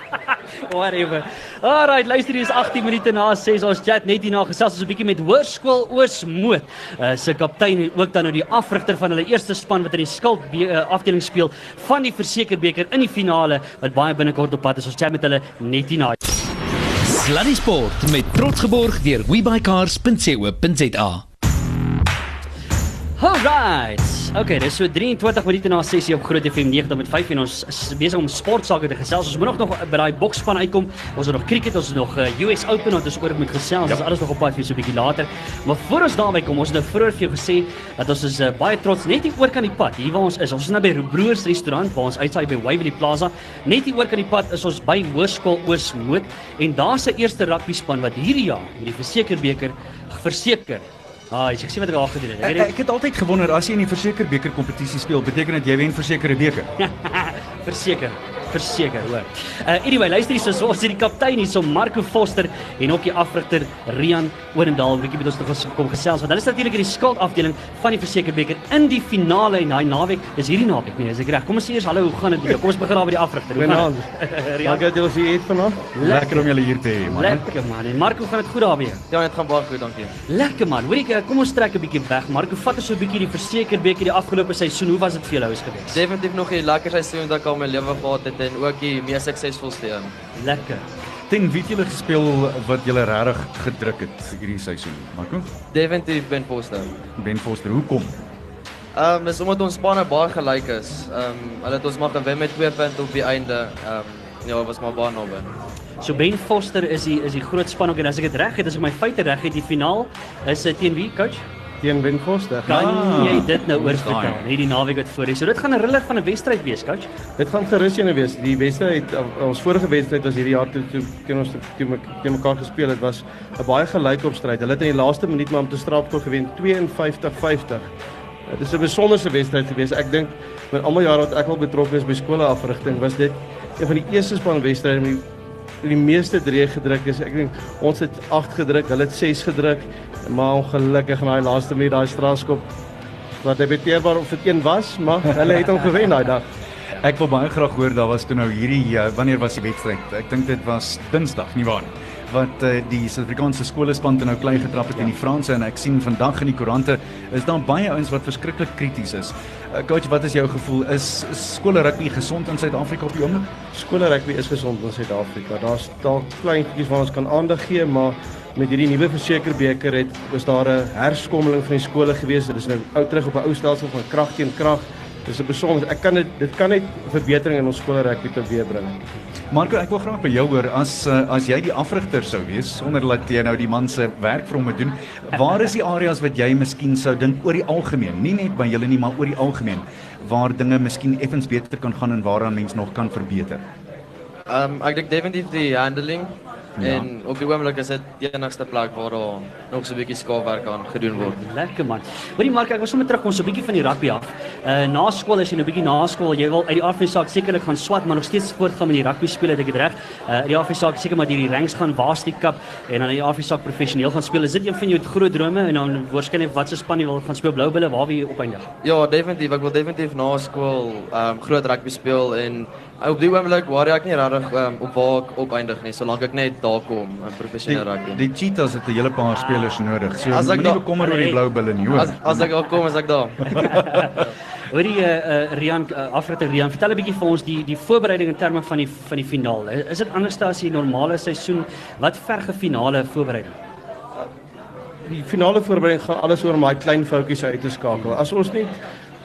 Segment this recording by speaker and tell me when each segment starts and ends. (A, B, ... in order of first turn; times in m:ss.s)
0:00.7-0:16.2 A
0:17.0-0:21.2 B
0:23.2-0:52.7 A
0:52.4-0:56.7 C
0:56.8-1:14.8 A
1:13.6-1:14.1 D
1:14.6-1:15.9 D
1:16.0-1:16.5 A
1:16.0-1:17.4 C
1:17.1-1:19.0 A
1:19.1-1:20.1 E
1:20.3-1:26.0 A
1:25.9-1:30.1 E
1:30.4-1:30.8 A
1:31.3-1:35.5 C
1:35.7-1:36.9 E
1:37.2-1:38.2 C
1:39.0-1:45.5 E
1:46.0-1:51.4 A
1:51.8-1:53.4 D
1:52.6-1:57.1 A
1:52.7-1:54.4 C
1:57.4-2:07.9 D
2:08.5-2:15.3 D
2:15.8-2:22.7 D
2:23.4-2:26.5 D
2:27.0-2:43.5 C
2:43.7-2:59.1 D
2:59.5-3:13.6 C
3:14.5-3:21.4 E
3:16.8-3:17.1 C
3:21.2-3:38.7 A
3:38.8-3:48.2 E
3:47.7-3:52.5 C
3:50.3-3:50.9 E
3:51.0-3:51.4 A
3:51.9-3:53.7 E
3:53.6-3:54.2 A
3:54.7-4:03.6 A
4:05.1-4:08.8 D